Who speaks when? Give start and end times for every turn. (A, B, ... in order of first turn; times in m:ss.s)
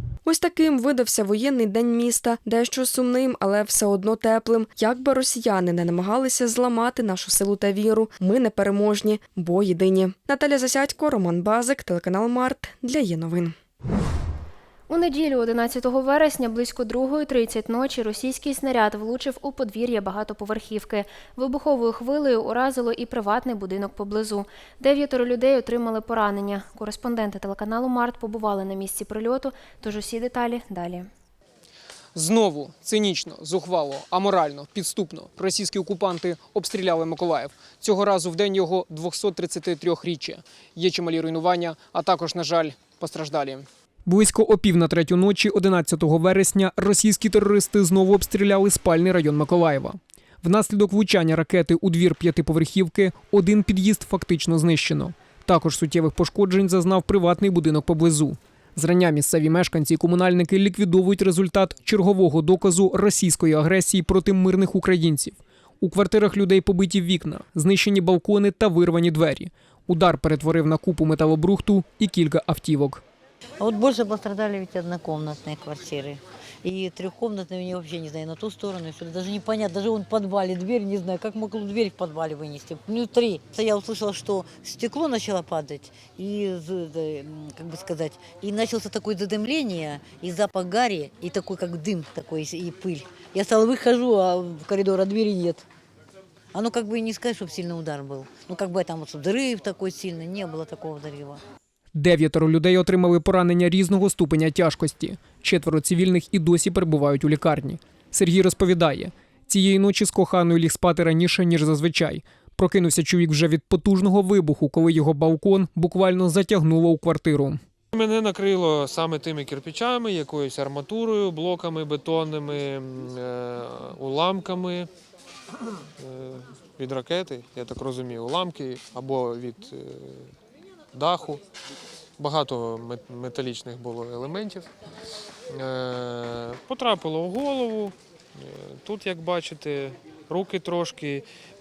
0:00.2-0:13.5 A
0:14.9-0:31.1 B
0:32.1-1:13.0 C
1:13.6-1:35.6 D
1:36.5-1:41.4 D
1:41.9-1:57.6 C
1:57.9-2:04.9 E
2:06.0-2:10.3 E
2:10.9-2:11.4 E
2:12.2-2:14.7 E
2:15.5-2:21.2 E